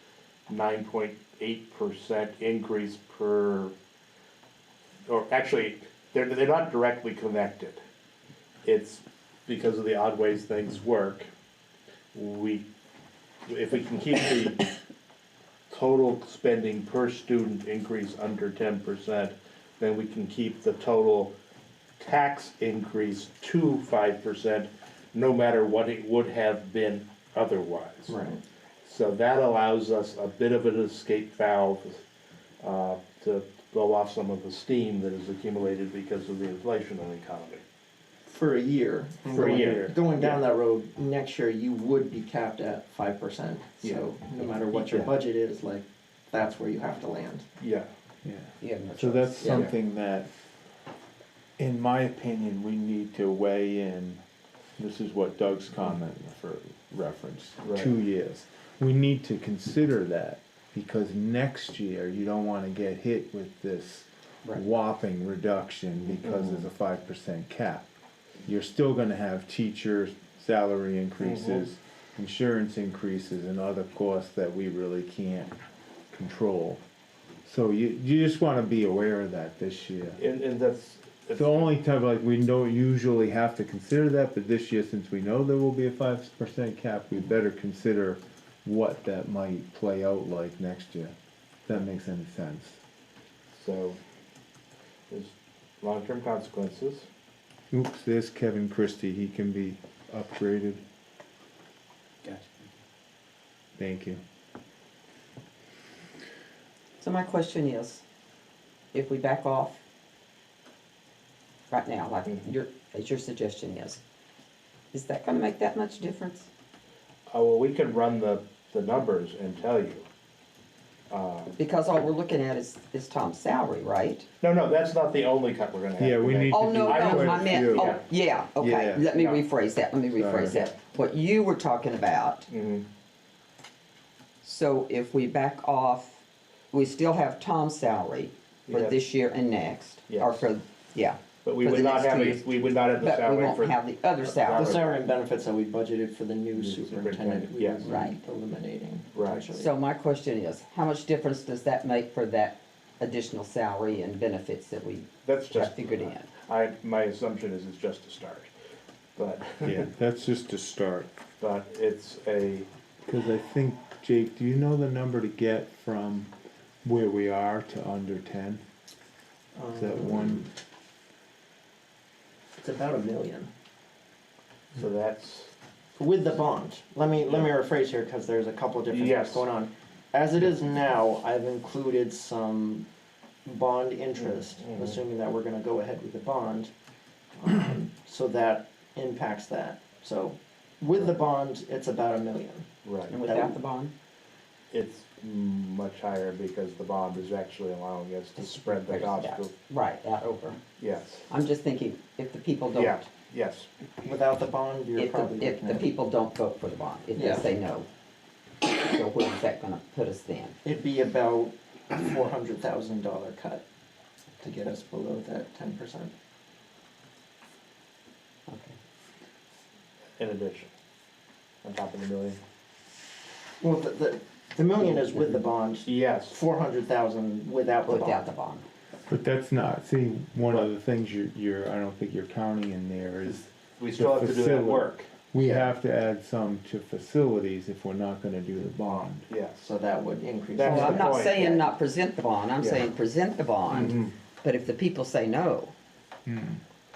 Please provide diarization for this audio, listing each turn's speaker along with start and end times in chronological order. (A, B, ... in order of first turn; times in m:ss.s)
0:00.5-0:03.7 A
0:05.1-0:07.8 A
0:08.6-0:11.3 A
0:12.1-0:12.7 A
0:13.4-0:14.7 A
0:15.7-0:21.3 A
0:22.0-0:28.2 A
0:28.1-0:28.4 B
0:28.8-0:32.0 A
0:32.6-0:37.6 A
0:38.3-0:47.4 B
0:39.3-0:40.4 A
0:43.8-0:44.1 A
0:44.7-0:45.1 A
0:47.6-0:47.9 A
0:48.2-0:50.3 C
0:48.6-0:49.6 D
0:49.4-0:49.7 B
0:49.4-0:49.7 A
0:51.6-0:54.2 C
0:54.8-1:07.9 C
0:57.6-0:57.9 A
1:06.2-1:06.6 A
1:08.4-1:15.5 C
1:11.2-1:11.6 A
1:16.1-1:16.8 C
1:17.4-1:20.2 C
1:20.2-1:21.7 A
1:21.3-1:32.8 C
1:33.5-1:34.0 A
1:35.1-1:37.1 A
1:37.7-1:40.8 C
1:43.8-1:44.2 C
1:47.0-1:48.0 D
1:48.9-1:49.8 D
1:51.7-1:54.0 D
1:54.9-1:56.5 D
1:57.3-2:00.0 A
2:01.1-2:01.5 A
2:01.6-2:04.3 D
2:04.4-2:08.0 A
2:06.0-2:08.0 C
2:06.5-2:12.5 D
2:08.6-2:09.0 C
2:09.1-2:09.4 A
2:10.1-2:10.6 C
2:12.5-2:12.9 A
2:14.4-2:16.2 D
2:16.7-2:24.9 D
2:18.7-2:19.0 A
2:20.1-2:20.5 A
2:21.4-2:23.8 A
2:24.3-2:25.0 A
2:24.5-2:29.7 B
2:26.6-2:27.8 A
2:27.8-2:28.2 D
2:29.1-2:29.5 A
2:29.5-2:36.3 D
2:35.2-2:38.5 A
2:39.2-2:39.9 A
2:39.6-2:41.1 C
2:41.4-2:42.7 A
2:43.0-2:46.3 C
2:46.8-2:48.6 C
2:49.5-2:50.5 B
2:49.7-2:50.5 C
2:52.6-2:53.5 B
2:54.7-2:55.5 A
2:55.9-3:02.9 B
2:57.2-2:57.5 A
2:58.9-2:59.4 A
3:03.4-3:06.7 B
3:04.2-3:05.0 A
3:07.4-3:12.7 B
3:12.8-3:13.1 A
3:13.1-3:13.9 D
3:13.2-3:13.6 B
3:14.7-3:19.5 A
3:18.4-3:20.6 D
3:20.8-3:21.3 A
3:21.3-3:23.1 D
3:22.7-3:23.7 A
3:24.0-3:25.9 B
3:25.0-3:27.9 D
3:27.2-3:27.5 B
3:28.6-3:30.6 D
3:30.6-3:33.6 B
3:34.4-3:36.1 B
3:38.5-3:38.8 D
3:40.2-3:40.7 A
3:41.6-3:42.4 A
3:43.6-3:48.3 B
3:44.8-3:45.4 D
3:45.8-3:46.3 A
3:47.8-3:48.6 D
3:49.1-3:59.2 C
3:53.2-3:55.1 A
3:55.4-3:55.7 B
3:59.3-3:59.6 A
3:59.6-4:01.7 B
4:00.5-4:01.4 A
4:00.6-4:05.7 D
4:02.6-4:02.9 A
4:03.7-4:04.1 A
4:06.2-4:06.6 C